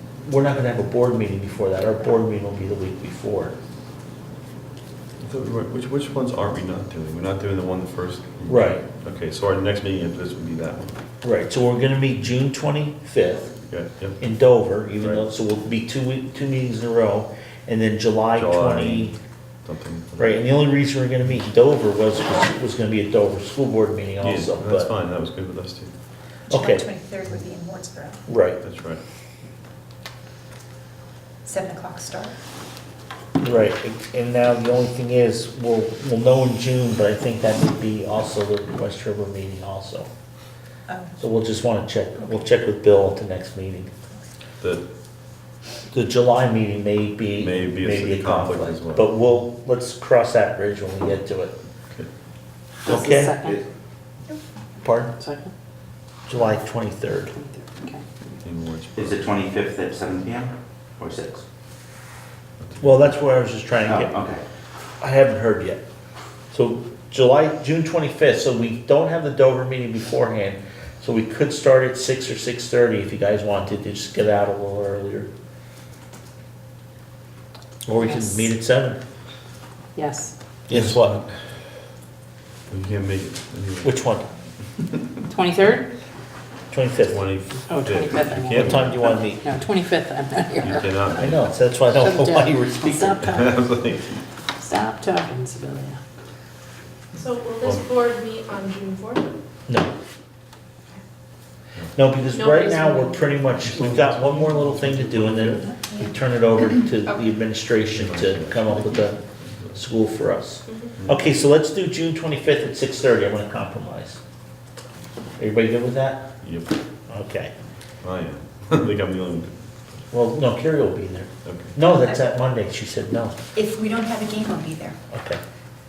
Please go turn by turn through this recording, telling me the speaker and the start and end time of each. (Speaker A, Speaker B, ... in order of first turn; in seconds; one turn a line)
Speaker A: 0.2-3.5
Speaker B: 5.2-11.0
Speaker A: 8.5-8.8
Speaker A: 11.2-13.5
Speaker B: 13.6-14.2
Speaker A: 14.2-19.2
Speaker B: 15.0-15.2
Speaker B: 18.4-19.1
Speaker B: 19.6-20.4
Speaker A: 20.2-24.9
Speaker B: 24.2-25.9
Speaker A: 26.5-26.9
Speaker C: 26.5-28.2
Speaker A: 28.3-28.6
Speaker B: 28.6-29.0
Speaker C: 31.4-32.4
Speaker A: 33.4-40.1
Speaker C: 40.9-41.2
Speaker A: 41.2-43.9
Speaker A: 45.9-51.5
Speaker B: 47.4-49.1
Speaker A: 52.9-53.4
Speaker D: 52.9-53.6
Speaker A: 54.8-55.1
Speaker D: 55.2-55.5
Speaker A: 56.3-57.3
Speaker D: 57.3-58.0
Speaker B: 58.4-59.3
Speaker E: 59.0-61.4
Speaker B: 62.6-63.1
Speaker A: 62.8-64.2
Speaker E: 63.8-64.4
Speaker A: 65.0-65.8
Speaker A: 66.5-75.3
Speaker A: 77.9-79.0
Speaker D: 78.0-78.5
Speaker D: 80.0-80.3
Speaker A: 80.7-81.2
Speaker B: 80.7-81.2
Speaker B: 82.7-84.0
Speaker A: 83.8-84.3
Speaker D: 85.3-85.9
Speaker A: 86.7-87.2
Speaker B: 87.1-89.0
Speaker D: 87.7-90.9
Speaker A: 88.5-89.4
Speaker B: 90.6-91.5
Speaker A: 91.2-93.2
Speaker D: 91.9-93.6
Speaker B: 93.2-94.2
Speaker D: 94.6-96.0
Speaker F: 97.2-99.3
Speaker A: 102.0-109.2
Speaker F: 102.3-103.4
Speaker B: 103.6-105.7
Speaker B: 107.9-109.8
Speaker A: 109.8-114.2
Speaker B: 111.0-111.3
Speaker A: 115.4-116.3
Speaker B: 116.4-116.8
Speaker A: 117.1-117.5
Speaker B: 118.0-119.6
Speaker A: 120.1-123.4
Speaker B: 121.5-121.8
Speaker C: 121.8-122.2
Speaker C: 123.5-125.0
Speaker A: 125.1-125.4